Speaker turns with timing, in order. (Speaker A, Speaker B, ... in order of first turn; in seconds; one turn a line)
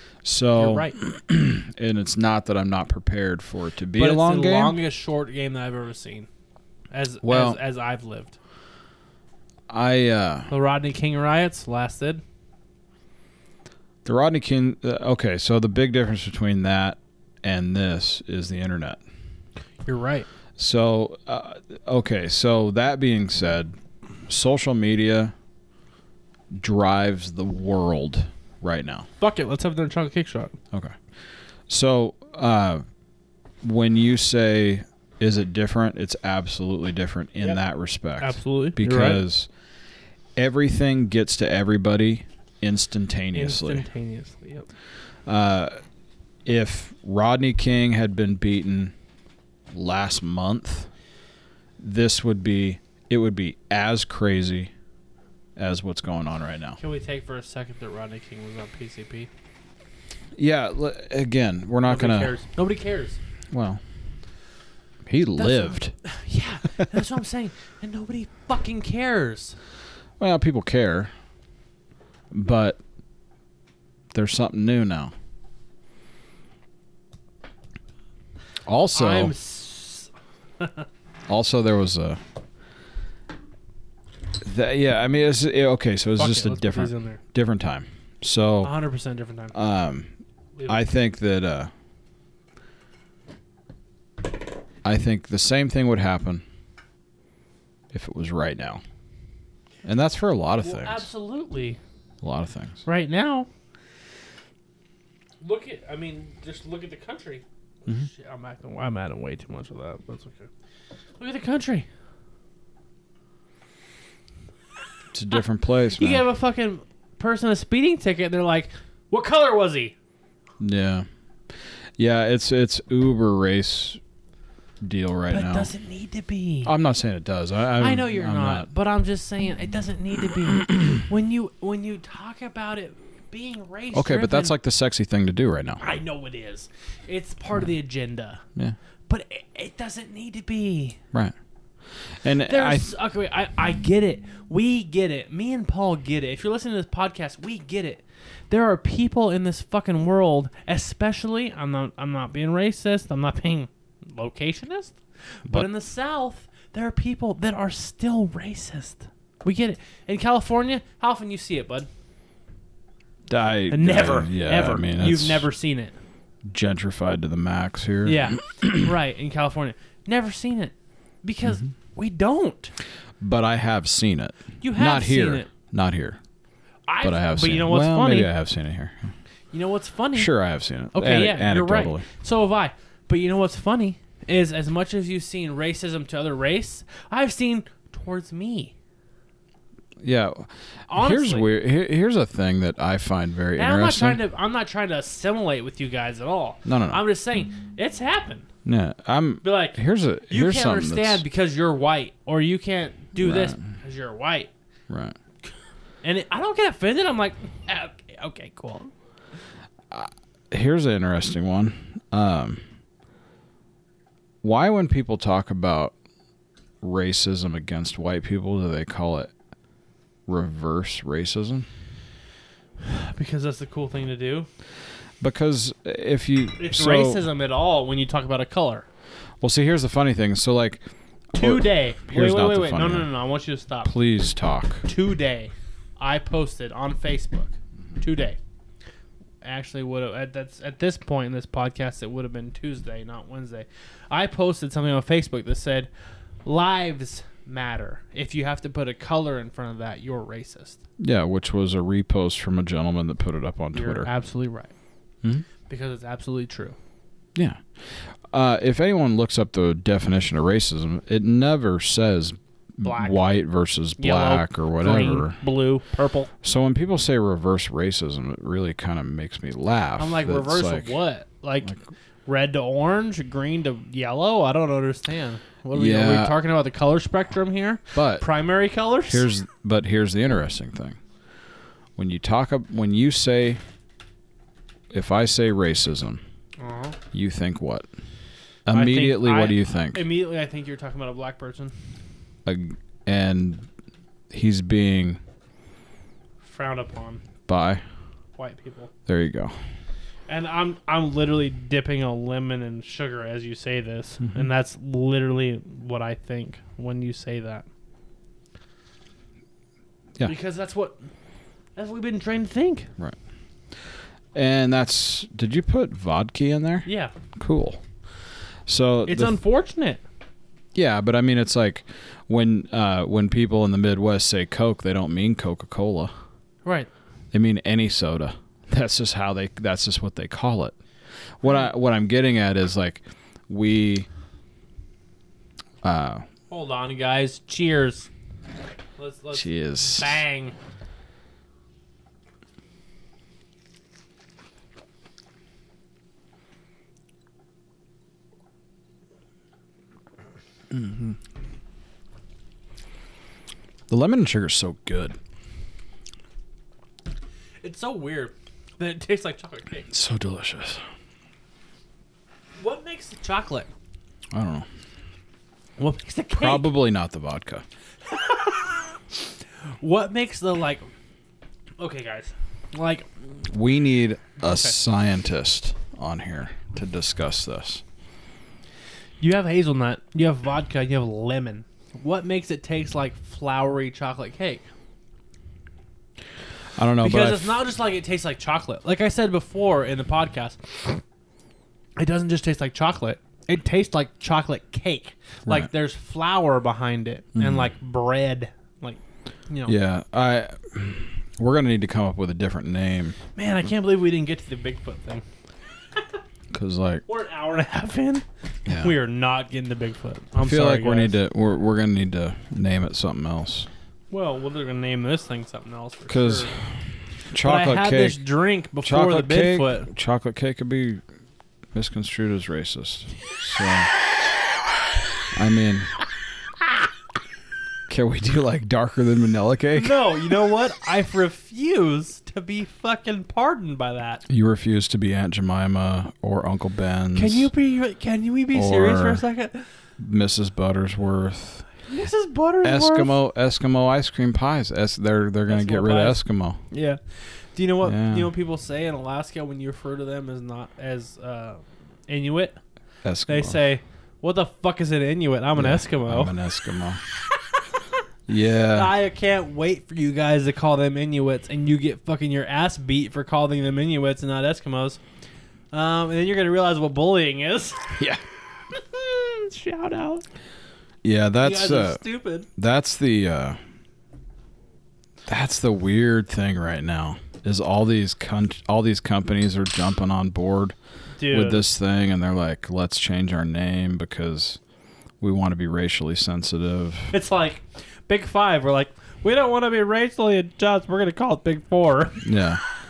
Speaker A: 0.2-4.8
Speaker B: 0.6-0.9
Speaker B: 4.0-6.3
Speaker B: 6.9-8.3
Speaker A: 7.2-7.6
Speaker A: 9.7-10.5
Speaker B: 10.5-12.2
Speaker A: 14.0-19.0
Speaker B: 19.8-20.3
Speaker A: 20.6-25.3
Speaker A: 26.5-29.1
Speaker B: 29.2-30.5
Speaker A: 30.7-31.1
Speaker A: 31.7-32.8
Speaker A: 33.6-39.5
Speaker B: 38.2-39.2
Speaker A: 40.4-43.9
Speaker B: 43.3-44.7
Speaker A: 45.2-45.8
Speaker A: 46.4-48.9
Speaker A: 49.7-50.9
Speaker A: 51.8-54.7
Speaker A: 55.5-56.8
Speaker B: 56.8-59.3
Speaker A: 60.4-62.3
Speaker B: 61.8-63.2
Speaker A: 63.5-63.8
Speaker A: 65.0-66.0
Speaker B: 65.4-69.6
Speaker A: 70.2-71.1
Speaker A: 72.3-72.8
Speaker A: 74.1-75.1
Speaker A: 78.6-79.3
Speaker B: 78.9-80.8
Speaker A: 81.3-82.2
Speaker A: 84.4-88.7
Speaker B: 86.2-87.2
Speaker B: 88.6-89.5
Speaker A: 89.5-90.1
Speaker A: 90.7-91.7
Speaker A: 94.8-96.4
Speaker A: 97.9-98.8
Speaker A: 99.8-101.1
Speaker B: 100.6-101.8
Speaker A: 102.2-102.8
Speaker B: 102.8-103.5
Speaker B: 105.4-110.5
Speaker B: 111.2-111.9
Speaker A: 115.1-116.2
Speaker B: 116.0-119.9
Speaker A: 120.6-124.0
Speaker A: 124.8-125.7
Speaker B: 125.3-126.7
Speaker A: 126.6-128.7
Speaker B: 127.8-134.5
Speaker A: 133.9-135.8
Speaker B: 135.8-138.4
Speaker B: 139.1-141.0
Speaker A: 141.8-142.9
Speaker B: 142.4-161.9
Speaker A: 163.3-165.5
Speaker B: 163.7-165.9
Speaker A: 166.4-168.8
Speaker B: 168.0-172.7
Speaker A: 173.2-176.2
Speaker B: 174.6-175.5
Speaker B: 176.9-178.3
Speaker A: 177.0-179.1
Speaker B: 179.5-180.3
Speaker A: 180.1-182.1
Speaker B: 180.9-188.7
Speaker A: 190.0-194.2
Speaker B: 190.9-191.4
Speaker B: 193.6-198.4
Speaker A: 196.6-197.0
Speaker A: 198.6-201.2
Speaker B: 199.4-199.8
Speaker B: 200.3-204.5
Speaker A: 203.2-203.6
Speaker A: 204.9-205.2
Speaker B: 206.0-208.9
Speaker A: 209.9-212.6
Speaker A: 214.4-215.9
Speaker A: 216.8-219.3
Speaker A: 220.3-221.7
Speaker B: 222.8-224.5
Speaker A: 225.2-227.2
Speaker B: 226.6-228.8
Speaker A: 229.4-230.8
Speaker A: 231.3-233.1
Speaker B: 231.3-233.9
Speaker A: 233.8-234.8
Speaker B: 234.8-238.4
Speaker B: 239.4-245.9
Speaker B: 246.4-250.8
Speaker A: 251.0-254.1
Speaker B: 253.7-254.7
Speaker B: 255.7-256.8
Speaker A: 257.3-265.4
Speaker B: 262.8-263.2
Speaker B: 264.0-266.3
Speaker A: 266.4-271.0
Speaker B: 270.0-279.3
Speaker A: 275.7-276.3
Speaker A: 277.9-278.2
Speaker A: 279.1-281.0
Speaker A: 281.9-283.6
Speaker A: 284.9-286.2
Speaker B: 286.6-287.0
Speaker A: 287.1-287.9
Speaker A: 288.7-290.0
Speaker B: 288.7-291.7
Speaker A: 292.4-293.7
Speaker A: 294.3-295.2
Speaker B: 296.4-297.2
Speaker A: 297.5-297.8
Speaker B: 298.4-298.9
Speaker A: 299.1-299.5
Speaker B: 300.3-307.6
Speaker A: 304.2-304.5
Speaker B: 310.2-311.0
Speaker B: 311.8-312.9
Speaker A: 314.3-319.4
Speaker B: 316.8-317.1
Speaker B: 319.1-320.0
Speaker A: 320.7-326.1
Speaker A: 327.3-330.8
Speaker A: 331.4-334.1
Speaker A: 335.8-336.2
Speaker B: 336.5-338.1
Speaker B: 339.0-340.5
Speaker A: 339.3-340.2
Speaker A: 350.7-351.1
Speaker A: 353.9-355.2
Speaker B: 357.6-359.9
Speaker A: 359.9-360.8
Speaker B: 362.6-363.7
Speaker A: 364.3-364.7
Speaker B: 365.8-366.6
Speaker A: 366.3-367.6
Speaker B: 368.1-370.9
Speaker B: 371.8-373.4
Speaker A: 373.5-377.8
Speaker B: 374.4-374.7
Speaker B: 379.2-384.6
Speaker A: 386.7-387.6
Speaker B: 387.0-391.0
Speaker B: 392.0-399.7
Speaker A: 397.4-397.7
Speaker A: 399.6-403.2
Speaker B: 403.4-405.2
Speaker A: 406.5-407.0
Speaker B: 407.1-411.1
Speaker A: 408.7-408.9
Speaker A: 410.4-413.7
Speaker B: 414.1-416.6
Speaker A: 416.1-418.2
Speaker B: 417.4-419.9
Speaker A: 418.8-421.0
Speaker A: 421.7-423.9
Speaker A: 425.3-425.9
Speaker A: 427.9-430.0
Speaker B: 429.8-434.2
Speaker A: 434.3-437.5
Speaker B: 437.1-439.7
Speaker A: 438.5-439.2
Speaker A: 440.0-441.7
Speaker B: 441.9-443.1
Speaker A: 442.6-446.6
Speaker B: 445.5-452.6
Speaker A: 447.8-448.3
Speaker A: 453.0-453.6
Speaker B: 453.2-456.3
Speaker A: 455.6-457.0
Speaker B: 457.3-457.9
Speaker A: 458.3-458.9
Speaker B: 458.7-465.0
Speaker B: 465.7-468.0
Speaker A: 467.9-468.2
Speaker B: 468.7-470.2
Speaker A: 471.0-473.6
Speaker B: 471.4-472.5
Speaker A: 475.2-484.6
Speaker B: 481.2-481.6
Speaker A: 485.2-487.1
Speaker B: 487.1-492.3
Speaker A: 492.2-492.6